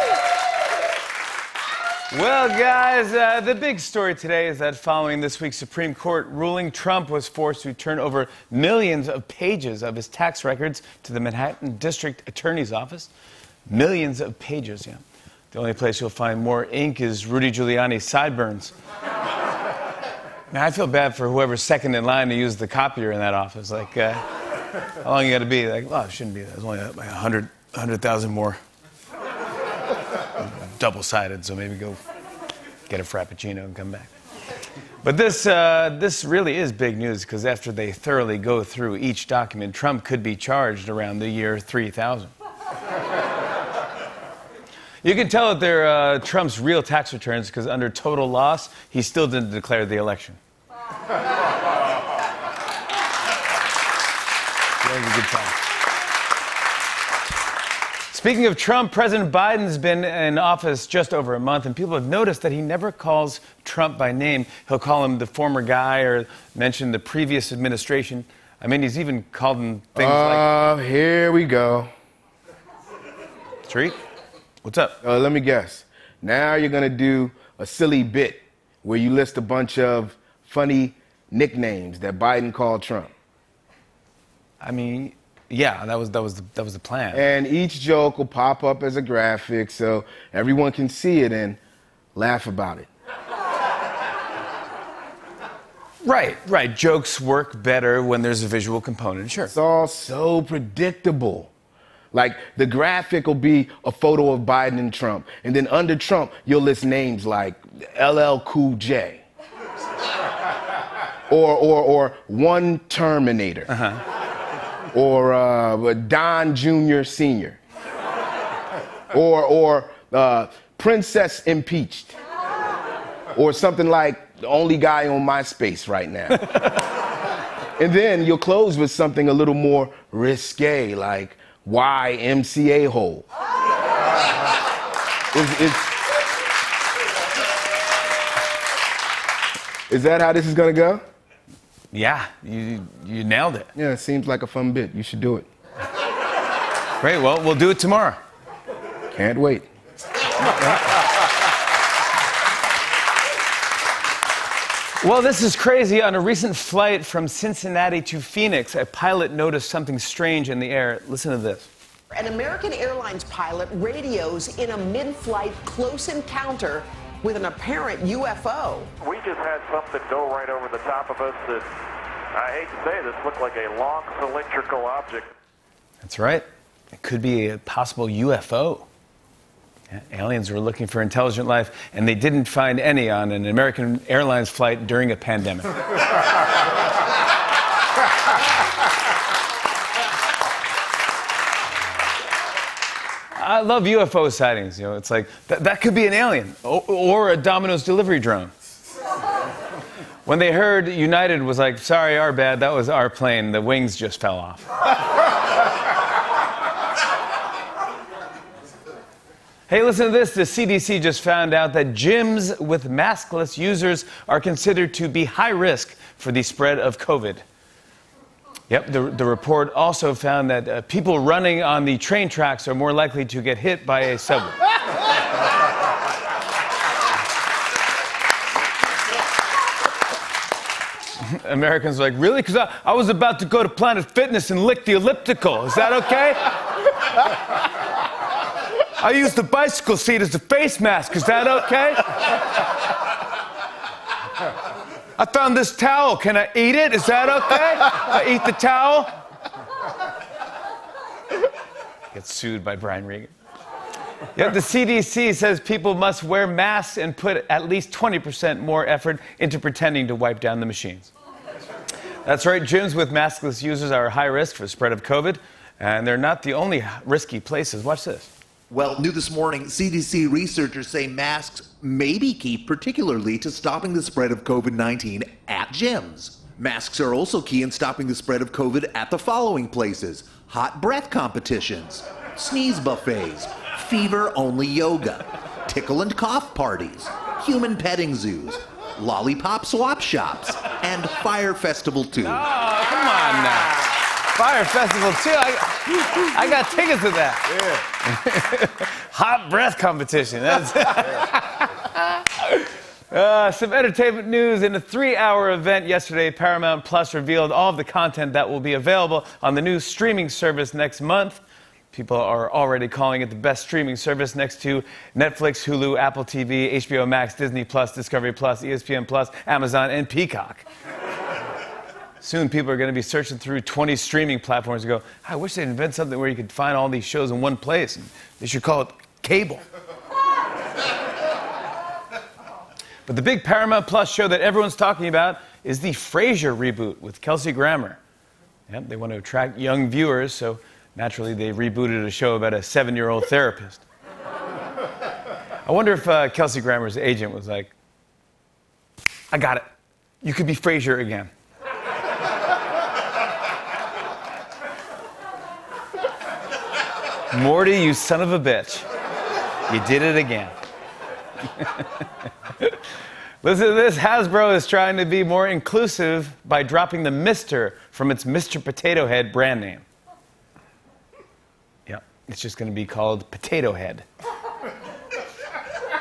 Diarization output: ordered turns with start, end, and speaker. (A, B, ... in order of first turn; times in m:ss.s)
0:02.1-0:13.1 A
0:13.7-0:18.7 A
0:20.5-0:24.2 A
0:24.8-0:28.6 A
0:30.3-0:32.0 A
0:32.9-0:34.1 A
0:35.0-0:42.3 A
0:45.0-0:50.4 A
0:54.8-0:55.6 A
0:58.1-1:10.5 A
1:10.0-1:11.9 B
1:13.6-1:14.0 A
1:14.6-1:15.0 A
1:15.0-1:23.1 B
1:24.6-1:27.2 A
1:27.1-1:31.6 B
1:32.2-1:32.9 B
1:36.0-1:39.5 A
1:39.5-1:41.5 B
1:42.1-1:49.2 B
1:51.3-1:53.7 B
1:53.7-1:54.0 A
1:54.9-1:57.6 B
1:59.1-2:02.2 B
2:03.4-2:06.4 B
2:07.8-2:13.2 B
2:15.3-2:15.9 B
2:19.9-2:21.0 B
2:21.9-2:23.7 A
2:23.8-2:25.5 B
2:27.0-2:28.2 A
2:29.1-2:29.7 B
2:35.0-2:41.7 A
2:42.1-2:48.9 C
2:49.0-2:51.6 D
2:52.3-2:55.3 D
2:56.0-2:58.9 A
2:59.9-3:05.8 A
3:13.4-3:18.5 A
3:20.2-3:24.7 A
3:29.7-3:37.4 A
3:38.7-3:44.6 A
3:51.2-3:56.9 A
3:58.8-4:02.5 A
4:05.2-4:09.1 A
4:12.1-4:13.3 A
4:14.4-4:21.1 A
4:22.2-4:28.3 A
4:28.7-4:52.4 E
4:52.2-5:20.6 A
5:22.2-5:29.6 A
5:33.1-5:38.0 A
5:38.7-5:43.8 A
5:45.6-5:47.7 A
5:49.3-5:49.6 A
5:50.2-5:51.3 A
5:57.3-5:58.8 A
5:59.7-6:00.5 A
6:01.4-6:02.8 A
6:03.4-6:09.8 A
6:11.9-6:14.0 A